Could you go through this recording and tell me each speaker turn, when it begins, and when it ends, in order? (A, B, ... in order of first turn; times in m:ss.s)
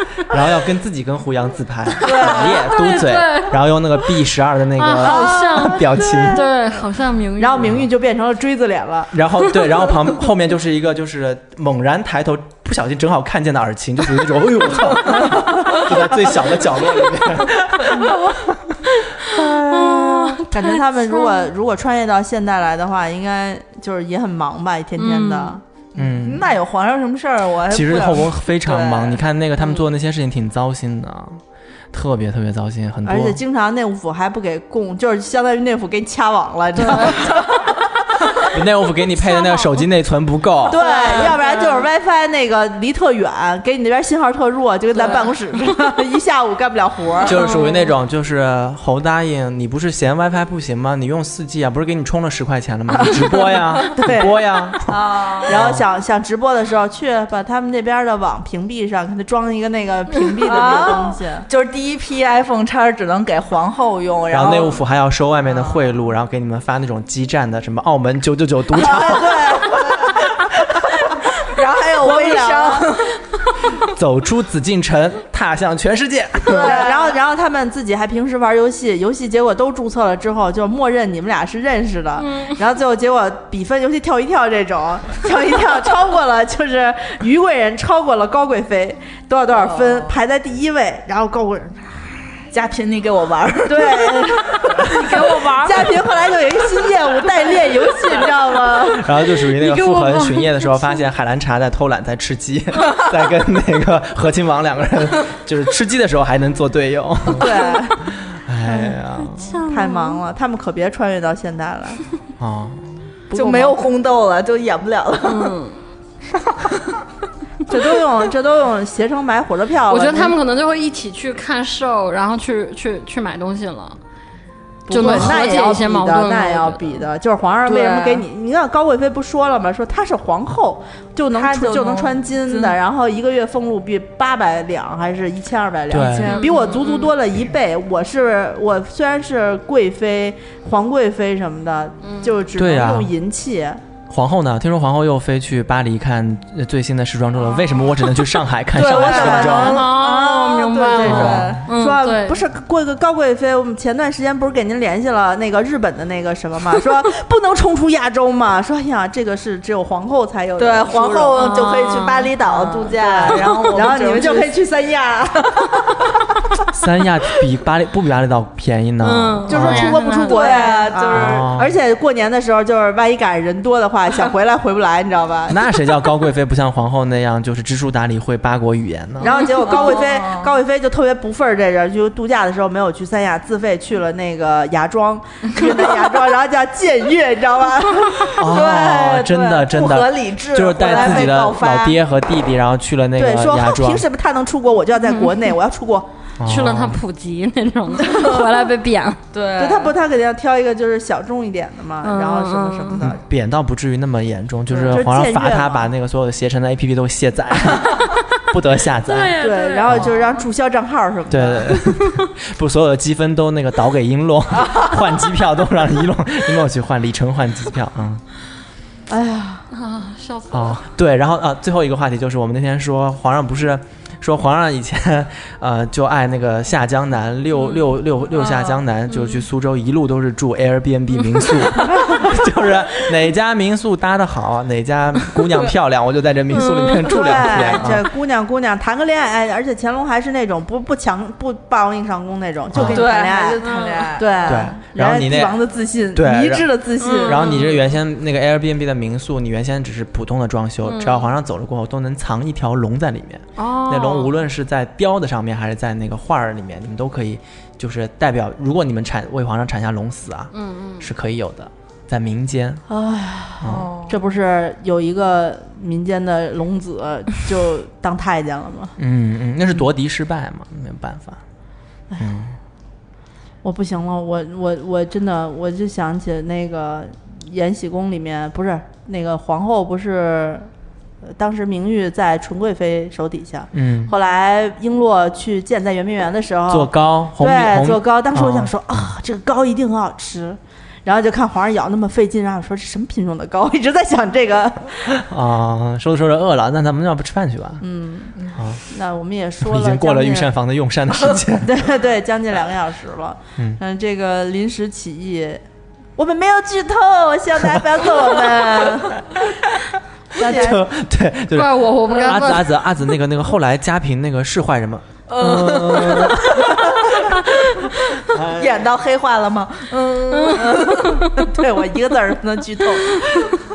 0:00.2-0:06.4 A
0:02.0-0:02.7 B
0:02.4-0:03.6 C
0:04.8-0:07.7 C
0:05.1-0:06.4 B
0:07.4-0:09.2 B
0:07.6-0:07.8 A
0:09.1-0:20.2 A
0:19.7-0:21.5 C
0:20.4-0:25.6 B
0:25.0-0:25.6 C
0:26.0-0:26.5 A
0:26.0-0:29.2 D
0:27.7-0:31.4 A
0:31.9-0:33.4 A
0:33.0-0:37.7 B
0:36.8-0:37.2 C
0:38.4-0:40.8 A
0:39.2-0:39.8 C
0:40.7-0:47.4 B
0:40.7-0:41.7 D
0:47.2-0:55.8 A
0:47.4-0:47.8 C
0:53.9-0:54.4 B
0:54.9-0:55.5 D
0:55.4-1:01.5 B
1:00.4-1:04.8 D
1:04.3-1:09.8 A
1:08.8-1:10.3 D
1:08.8-1:09.9 B
1:11.4-1:13.2 D
1:11.9-1:12.9 B
1:13.8-1:16.8 A
1:16.5-1:17.2 D
1:16.5-1:32.4 B
1:22.2-1:22.6 C
1:29.6-1:30.1 D
1:32.5-1:35.5 D
1:33.7-1:39.1 B
1:34.8-1:35.9 C
1:37.3-1:38.6 D
1:38.8-1:47.5 A
1:39.5-1:41.0 C
1:47.4-1:47.8 D
1:47.4-1:47.9 B
1:48.0-1:49.6 A
1:49.2-1:50.2 C
1:49.7-1:52.0 B
1:52.4-1:52.9 A
1:53.3-1:53.8 B
1:53.3-1:55.5 D
1:55.2-1:55.8 C
1:57.7-2:00.3 B
1:59.9-2:04.0 C
2:04.9-2:23.8 B
2:04.9-2:07.0 C
2:04.9-2:05.4 D
2:07.6-2:08.2 D
2:11.3-2:12.8 D
2:15.9-2:16.4 A
2:16.0-2:16.8 D
2:16.3-2:17.1 C
2:22.6-2:23.1 A
2:24.1-2:29.8 A
2:28.7-2:30.1 D
2:28.8-2:45.7 B
2:29.4-2:32.4 C
2:31.0-2:31.6 A
2:40.6-2:44.5 D
2:41.4-2:42.3 C
2:46.7-2:50.0 A
2:49.0-2:50.8 C
2:49.5-2:55.6 B
2:50.1-2:51.4 D
2:51.1-2:51.7 A
2:55.5-2:59.3 A
2:59.2-3:08.8 B
2:59.2-3:00.5 D
3:08.2-3:12.0 D
3:08.4-3:14.0 A
3:10.7-3:11.5 B
3:13.2-3:16.1 B
3:15.1-3:15.5 C
3:16.4-3:17.0 A
3:16.4-3:19.2 C
3:19.3-3:19.9 D
3:19.6-3:23.2 B
3:22.0-3:23.0 C
3:23.0-3:30.1 A
3:24.7-3:25.9 B
3:29.0-3:30.3 C
3:29.4-3:31.8 B
3:31.3-3:38.2 A
3:39.1-3:39.7 B
3:39.7-3:40.8 C
3:40.5-3:58.0 A
3:49.1-3:49.4 C
3:56.5-3:57.4 C
3:57.1-4:03.6 B
4:02.7-4:03.1 A
4:02.8-4:04.6 D
4:03.6-4:04.2 C
4:04.2-4:07.6 B
4:04.4-4:05.6 A
4:06.1-4:22.8 A
4:07.0-4:07.8 C
4:10.8-4:11.3 C
4:13.6-4:14.3 C
4:20.5-4:21.1 C
4:22.9-4:28.9 B
4:23.6-4:23.9 A
4:23.6-4:24.2 D
4:29.0-4:31.4 A
4:32.2-4:32.6 A
4:33.6-4:40.7 B
4:41.2-4:55.1 B
4:43.7-4:44.1 A
4:46.7-4:48.7 A
4:55.1-4:57.8 A
4:57.8-5:00.5 B
4:58.5-4:58.8 A
4:59.6-5:01.8 A
5:01.6-5:05.6 B
5:06.2-5:09.4 B
5:10.3-5:10.8 B
5:10.4-5:18.8 A
5:11.5-5:12.7 C
5:15.3-5:17.2 D
5:18.3-5:21.5 D
5:20.3-5:21.3 C
5:20.5-5:23.2 B